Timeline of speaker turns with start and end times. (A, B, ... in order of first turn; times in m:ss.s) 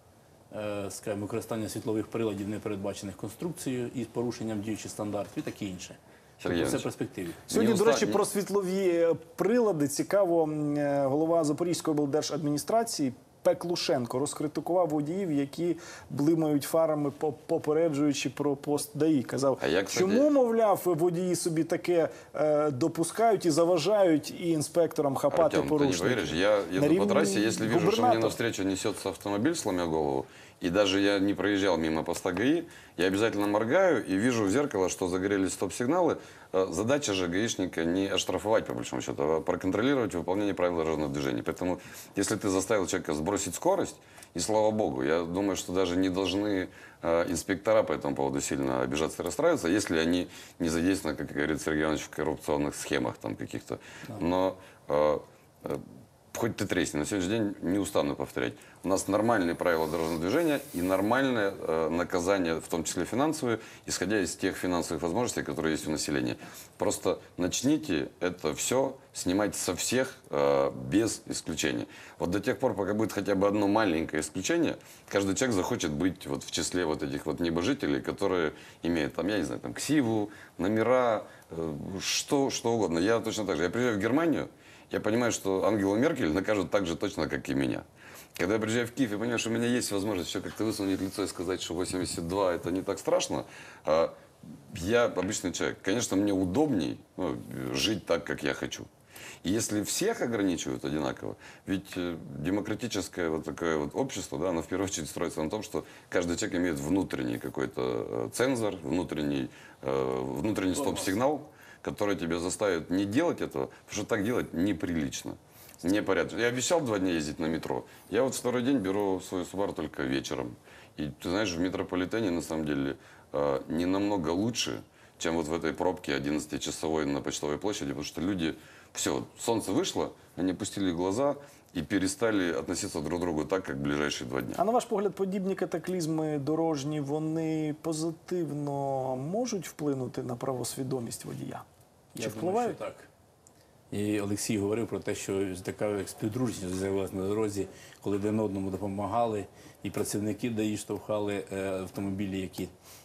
0:00.5-0:07.4 A
0:06.4-0:06.9 B
0:07.5-0:08.2 B
0:07.5-0:28.4 C
0:19.6-0:20.3 B
0:25.3-1:27.8 B
1:28.4-1:38.9 B
1:39.4-2:14.6 B
1:50.7-1:51.1 A
2:14.6-2:21.6 C
2:22.1-2:23.1 A
2:22.2-2:22.8 C
2:23.9-2:32.7 A